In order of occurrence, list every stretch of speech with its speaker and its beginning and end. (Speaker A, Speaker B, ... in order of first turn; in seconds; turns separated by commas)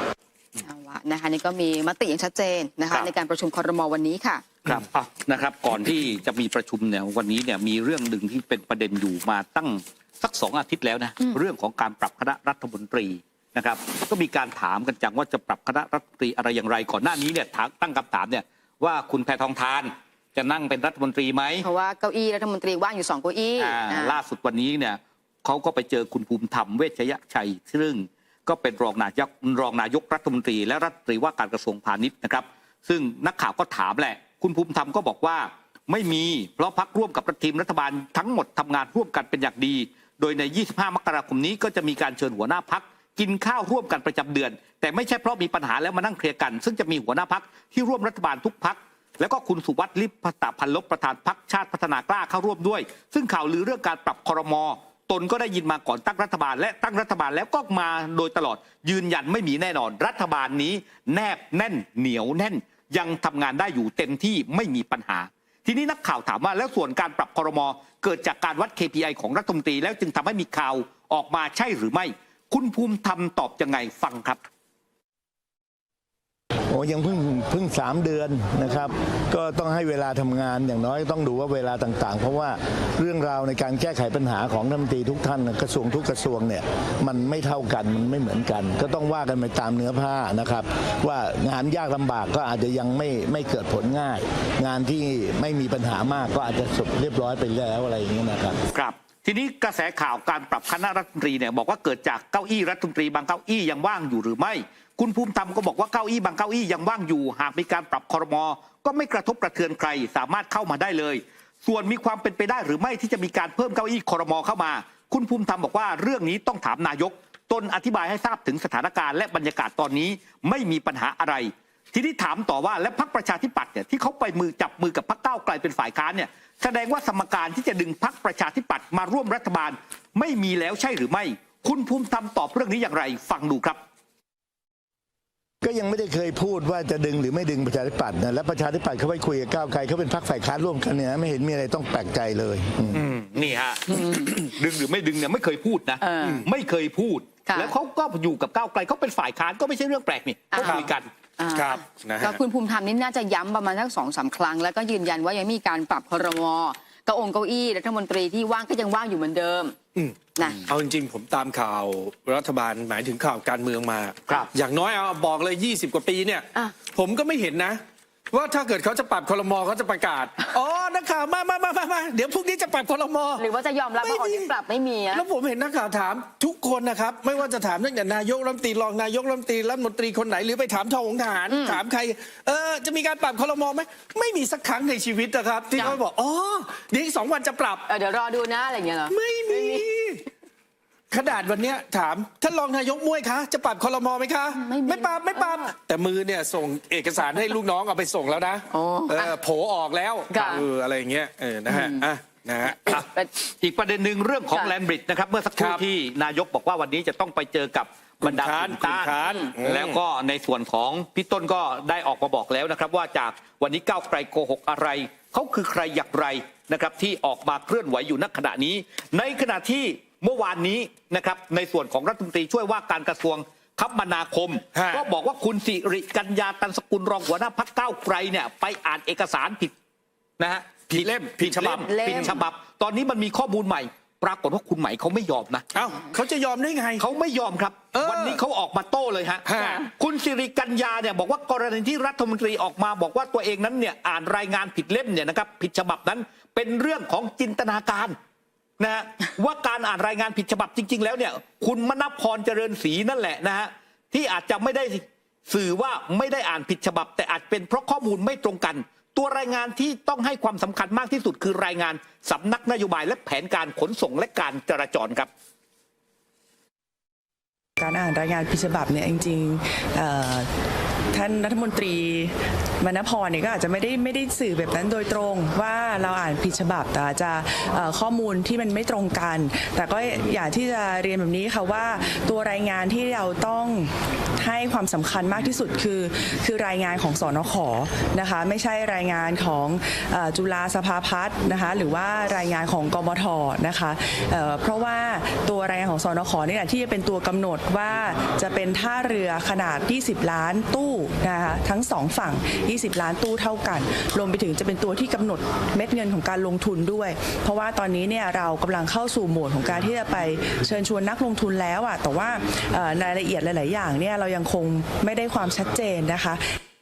Speaker A: 0.6-4.6, Speaker B: 4.7-21.7, Speaker A: 21.6-24.2, Speaker B: 23.6-74.4, Speaker C: 76.7-98.6, Speaker B: 98.7-133.8, Speaker C: 135.6-143.0, Speaker B: 142.9-151.1, Speaker A: 143.9-144.3, Speaker A: 146.0-146.4, Speaker A: 147.4-147.7, Speaker A: 150.5-159.8, Speaker D: 150.6-150.9, Speaker D: 151.5-152.4, Speaker D: 159.9-167.8, Speaker D: 168.3-173.4, Speaker A: 173.4-175.2, Speaker D: 174.0-174.5, Speaker D: 175.1-187.8, Speaker A: 181.5-181.8, Speaker A: 187.9-189.8, Speaker D: 189.1-190.2, Speaker D: 191.1-203.0, Speaker A: 194.5-195.7, Speaker A: 198.7-199.3, Speaker A: 200.3-200.6, Speaker A: 201.7-202.0, Speaker A: 202.9-203.3, Speaker B: 202.9-229.7, Speaker D: 205.6-205.8, Speaker D: 208.2-210.0, Speaker D: 224.7-225.0, Speaker B: 230.4-235.7, Speaker D: 230.9-231.9, Speaker A: 231.6-232.4, Speaker D: 235.7-237.0, Speaker B: 237.0-248.2, Speaker D: 237.9-238.4, Speaker D: 239.4-239.8, Speaker B: 248.8-265.3, Speaker E: 267.8-270.5, Speaker E: 271.1-316.4